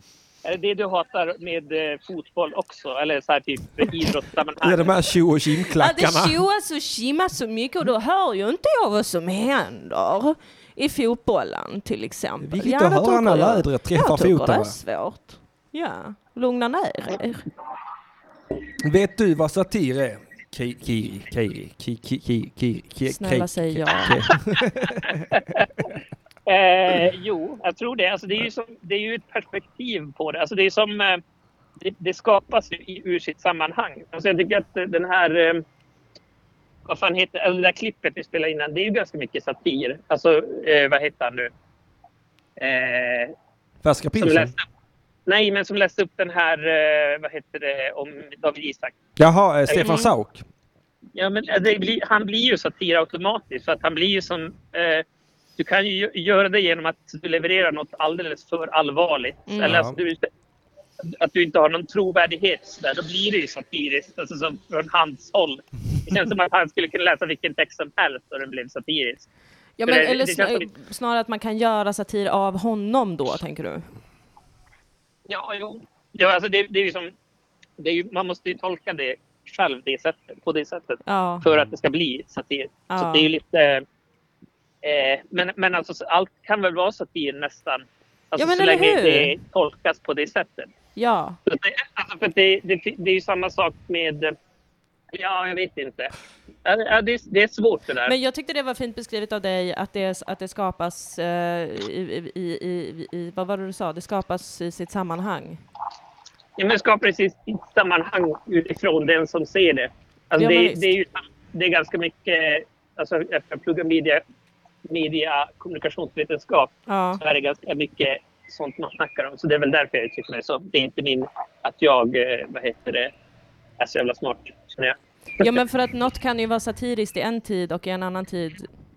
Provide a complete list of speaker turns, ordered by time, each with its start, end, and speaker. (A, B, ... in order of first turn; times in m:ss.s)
0:00.4-0:04.9 A
0:04.6-0:06.4 B
0:05.7-0:17.4 C
0:12.4-0:14.8 B
0:18.8-0:25.2 B
0:23.0-0:24.2 C
0:25.3-0:25.6 A
0:26.5-0:31.2 A
0:31.8-0:35.6 A
0:36.9-0:41.5 A
0:42.6-0:43.3 A
0:43.8-0:44.5 B
0:44.2-0:44.6 A
0:45.3-0:49.0 A
0:49.2-0:50.4 B
0:49.7-0:50.0 A
0:49.8-0:50.1 C
0:51.2-0:55.0 A
0:55.6-1:00.3 A
0:59.5-0:59.9 C
0:59.6-1:00.0 B
1:01.2-1:09.3 A
1:09.8-1:13.9 C
1:09.8-1:10.7 A
1:15.3-1:17.1 A
1:17.8-1:23.8 A
1:21.1-1:21.4 C
1:22.9-1:23.3 C
1:24.8-1:30.7 A
1:28.4-1:29.3 C
1:31.0-1:31.4 C
1:31.5-1:34.3 A
1:35.1-1:36.1 A
1:36.6-1:38.1 A
1:38.1-1:45.6 C
1:46.6-1:54.2 A
1:50.4-1:50.9 C
1:54.9-2:03.1 A
1:56.9-1:57.2 C
2:03.8-2:05.6 A
2:05.4-2:08.7 C